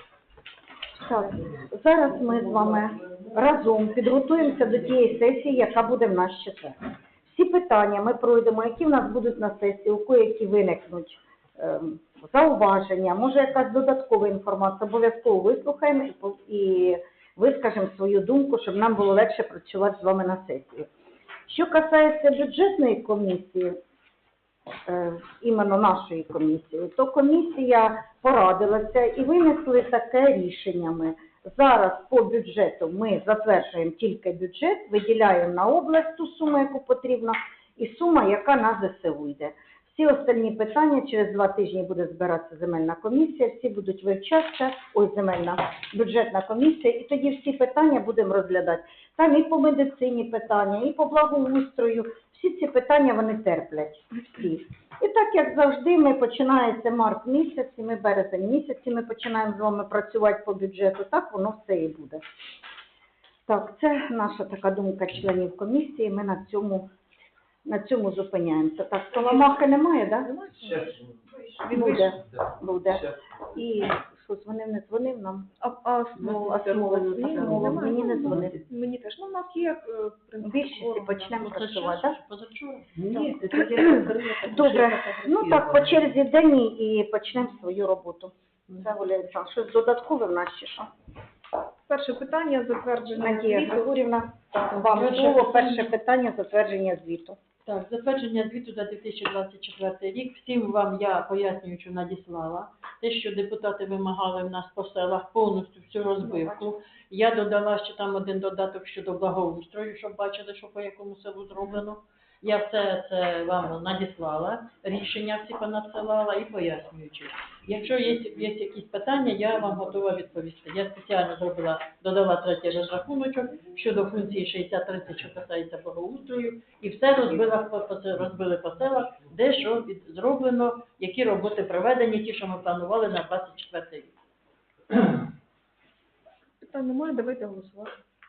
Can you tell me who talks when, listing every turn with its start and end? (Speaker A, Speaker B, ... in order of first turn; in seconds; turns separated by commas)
Speaker A: 0.9-20.9, Speaker A: 21.5-23.8, Speaker A: 24.9-62.2, Speaker A: 63.5-66.9, Speaker A: 67.7-70.3, Speaker B: 69.2-69.5, Speaker B: 70.2-72.2, Speaker A: 71.7-75.5, Speaker B: 75.6-81.3, Speaker C: 76.2-78.6, Speaker A: 77.3-78.6, Speaker A: 80.4-82.2, Speaker D: 81.3-83.0, Speaker C: 83.0-86.1, Speaker A: 83.8-90.9, Speaker B: 91.9-94.0, Speaker A: 93.2-97.4, Speaker B: 94.7-95.0, Speaker D: 94.8-95.9, Speaker D: 97.7-134.1, Speaker B: 106.2-106.6, Speaker B: 136.6-138.0